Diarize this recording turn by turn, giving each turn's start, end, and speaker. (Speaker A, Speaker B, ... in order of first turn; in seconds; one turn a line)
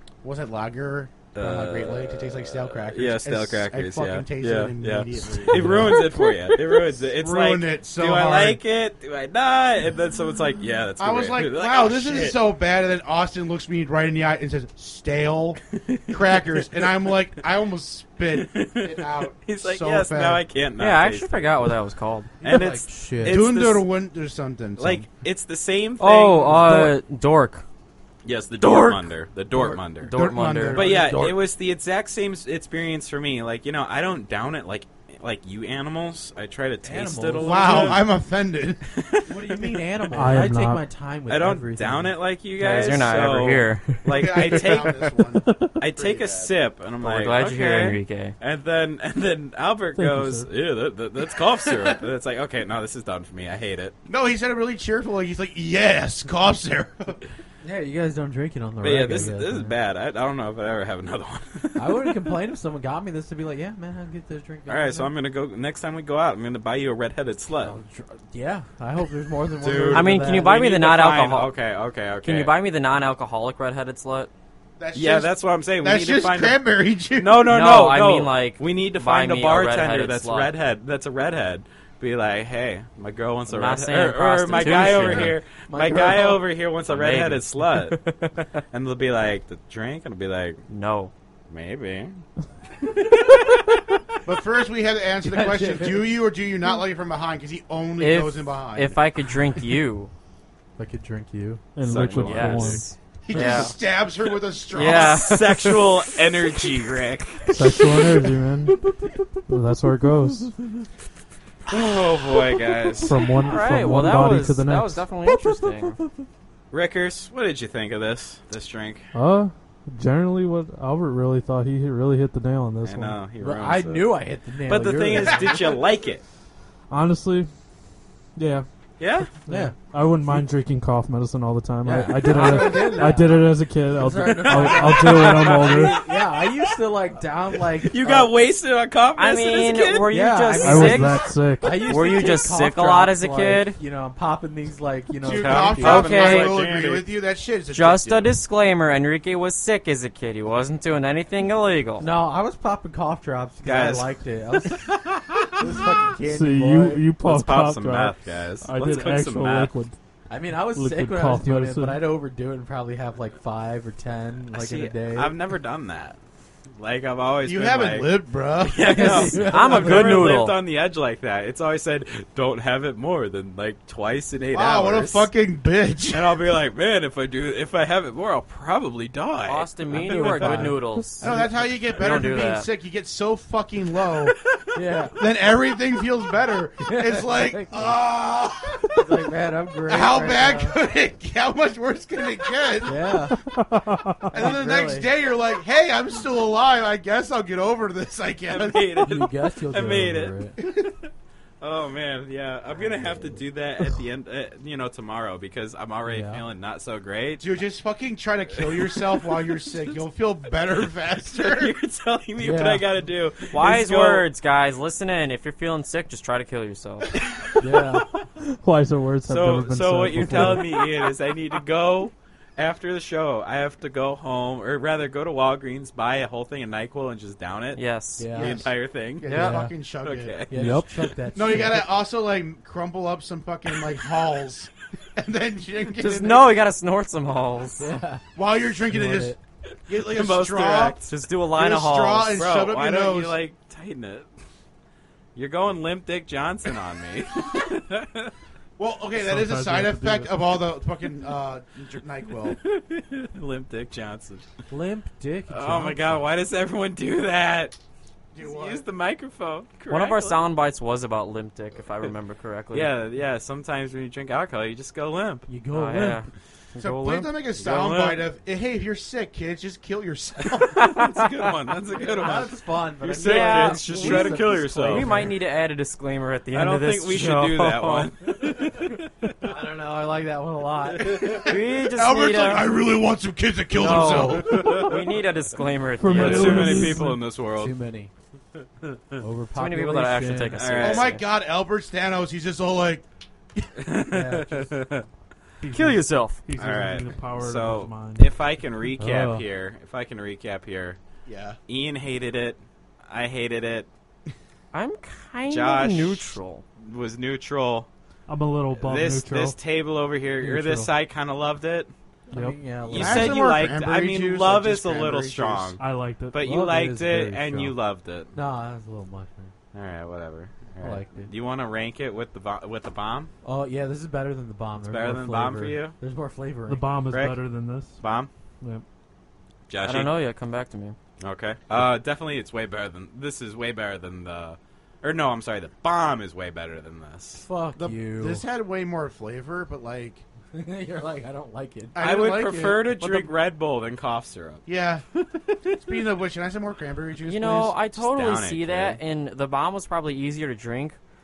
Speaker A: 0.2-6.1
Speaker B: 1.3-12.4
Speaker C: 5.5-6.0
Speaker A: 7.0-8.6
Speaker A: 11.0-20.4
Speaker B: 15.9-16.7
Speaker B: 18.3-21.7
Speaker D: 20.8-22.3
Speaker C: 22.4-23.4
Speaker B: 22.4-23.9
Speaker A: 23.2-25.1
Speaker B: 24.8-26.9
Speaker D: 26.0-27.6
Speaker B: 28.2-30.1
Speaker C: 29.5-29.8
Speaker D: 30.0-30.9
Speaker A: 30.1-31.3
Speaker C: 30.7-31.4
Speaker B: 30.7-38.1
Speaker C: 36.8-38.1
Speaker A: 37.4-38.9
Speaker B: 38.9-40.4
Speaker C: 39.2-42.2
Speaker E: 40.1-40.8
Speaker B: 41.3-45.0
Speaker D: 42.6-44.2
Speaker A: 44.1-46.5
Speaker E: 45.5-45.8
Speaker B: 45.8-53.9
Speaker D: 47.0-48.3
Speaker E: 50.0-50.5
Speaker A: 51.7-52.0
Speaker A: 54.1-57.2
Speaker C: 57.6-59.8
Speaker B: 58.8-62.1
Speaker C: 61.8-65.1
Speaker B: 64.7-67.8
Speaker C: 67.6-70.5
Speaker B: 69.6-72.5
Speaker D: 69.9-71.5
Speaker D: 72.2-74.3
Speaker A: 74.8-77.5
Speaker B: 74.9-88.0
Speaker D: 77.4-80.5
Speaker D: 83.5-85.3
Speaker C: 84.5-86.4
Speaker D: 86.9-88.5
Speaker B: 88.7-90.6
Speaker D: 90.7-91.1
Speaker B: 91.5-92.2
Speaker A: 94.2-99.0
Speaker C: 95.2-96.2
Speaker D: 98.0-100.1
Speaker C: 100.8-101.7
Speaker E: 101.8-102.8
Speaker B: 101.8-102.8
Speaker D: 102.0-103.8
Speaker A: 103.2-105.3
Speaker D: 104.7-105.9
Speaker B: 104.7-108.1
Speaker E: 107.5-108.8
Speaker E: 109.5-110.5
Speaker B: 111.7-113.3
Speaker E: 113.0-115.0
Speaker D: 113.4-116.0
Speaker B: 116.7-119.1
Speaker E: 119.1-123.2
Speaker B: 122.8-126.2
Speaker C: 123.4-125.8
Speaker E: 126.9-127.5
Speaker E: 128.3-128.7
Speaker B: 129.0-129.3
Speaker E: 129.2-135.9
Speaker C: 129.5-129.8
Speaker C: 131.8-138.3
Speaker D: 132.3-132.9
Speaker B: 134.4-136.8
Speaker B: 137.8-140.1
Speaker D: 139.2-141.2
Speaker C: 140.1-146.1
Speaker E: 140.6-141.8
Speaker D: 141.8-143.8
Speaker B: 145.2-147.1
Speaker A: 145.2-148.3
Speaker D: 145.8-146.6
Speaker D: 147.7-152.1
Speaker C: 152.0-154.9
Speaker B: 153.6-155.5
Speaker C: 155.6-157.0
Speaker A: 155.8-156.2
Speaker E: 156.2-159.9
Speaker B: 157.2-159.7
Speaker C: 160.3-165.4
Speaker E: 160.7-162.0
Speaker B: 164.5-166.2
Speaker B: 166.8-175.3
Speaker A: 167.4-169.7
Speaker C: 168.7-170.3
Speaker D: 169.0-170.6
Speaker A: 174.5-176.5
Speaker B: 176.1-180.7
Speaker D: 179.4-181.2
Speaker C: 179.9-181.7
Speaker E: 180.4-181.1
Speaker A: 181.2-184.3
Speaker D: 181.9-182.7
Speaker C: 184.7-185.2
Speaker A: 185.2-189.0
Speaker C: 186.8-188.0
Speaker C: 188.9-190.8
Speaker A: 189.9-193.1
Speaker C: 192.8-193.4
Speaker E: 193.3-194.3
Speaker C: 194.3-195.1
Speaker A: 194.3-199.0
Speaker B: 198.5-200.7
Speaker C: 199.0-200.6
Speaker A: 200.6-200.9
Speaker B: 201.6-207.4
Speaker C: 202.8-203.4
Speaker C: 206.1-206.4
Speaker A: 207.4-211.7
Speaker B: 208.5-209.9
Speaker B: 210.7-214.3
Speaker C: 212.4-212.9
Speaker D: 213.5-217.1
Speaker C: 217.6-218.1
Speaker E: 218.5-220.9
Speaker B: 219.2-229.2
Speaker D: 227.7-228.3
Speaker C: 228.2-228.6
Speaker A: 228.3-230.6
Speaker D: 229.2-229.6
Speaker C: 229.3-229.7
Speaker B: 230.0-230.8
Speaker C: 230.5-231.9
Speaker A: 231.3-236.6
Speaker D: 235.9-237.9
Speaker C: 237.8-238.2
Speaker A: 238.3-239.4
Speaker C: 238.8-239.4
Speaker A: 239.9-243.4
Speaker B: 240.0-241.1
Speaker D: 241.1-242.4
Speaker B: 242.3-244.3
Speaker B: 245.3-248.3
Speaker A: 248.8-252.6
Speaker E: 249.1-250.3
Speaker B: 252.4-254.4
Speaker C: 254.7-256.1
Speaker B: 255.5-257.8
Speaker A: 258.3-258.8
Speaker B: 258.4-260.4
Speaker D: 259.9-262.9
Speaker B: 262.7-265.5
Speaker C: 265.5-266.3
Speaker D: 265.7-267.3
Speaker A: 266.8-270.9
Speaker B: 267.6-268.2
Speaker B: 270.6-275.1
Speaker D: 270.8-271.4
Speaker C: 271.9-275.3
Speaker D: 273.2-278.1
Speaker B: 276.5-279.4
Speaker C: 279.4-281.3
Speaker B: 281.0-281.3
Speaker A: 281.0-285.0
Speaker D: 281.4-282.7
Speaker D: 283.7-286.9
Speaker B: 283.8-285.0
Speaker E: 286.0-287.2
Speaker B: 286.1-287.7
Speaker C: 287.5-288.1
Speaker B: 288.8-289.2
Speaker C: 289.2-290.6
Speaker D: 289.6-291.2
Speaker B: 290.6-291.1
Speaker A: 290.8-293.0
Speaker B: 293.8-295.1
Speaker C: 294.1-294.7
Speaker E: 295.6-298.3
Speaker D: 295.6-296.4
Speaker B: 296.6-301.0
Speaker C: 299.0-299.4
Speaker A: 301.2-301.6
Speaker B: 301.7-303.9
Speaker D: 304.7-306.6
Speaker B: 305.5-307.9
Speaker E: 308.3-309.6
Speaker B: 308.7-311.9
Speaker C: 310.4-310.9
Speaker C: 312.3-313.5
Speaker E: 312.3-312.6
Speaker B: 312.9-315.8
Speaker A: 312.9-315.8
Speaker E: 315.8-316.4
Speaker B: 316.3-318.3
Speaker C: 316.4-317.8
Speaker C: 318.3-319.5
Speaker B: 319.7-323.3
Speaker C: 320.8-321.3
Speaker C: 323.4-326.9
Speaker B: 324.8-325.9
Speaker E: 326.7-328.0
Speaker B: 327.1-327.4
Speaker B: 328.0-328.3
Speaker B: 329.7-330.1
Speaker D: 329.8-331.0
Speaker B: 331.2-337.4
Speaker C: 337.4-338.4
Speaker A: 337.8-340.2
Speaker C: 340.5-341.9
Speaker A: 341.9-342.9
Speaker B: 342.0-344.6
Speaker D: 343.0-343.3
Speaker A: 344.6-345.0
Speaker A: 345.7-347.8
Speaker D: 347.3-351.0
Speaker B: 347.9-349.0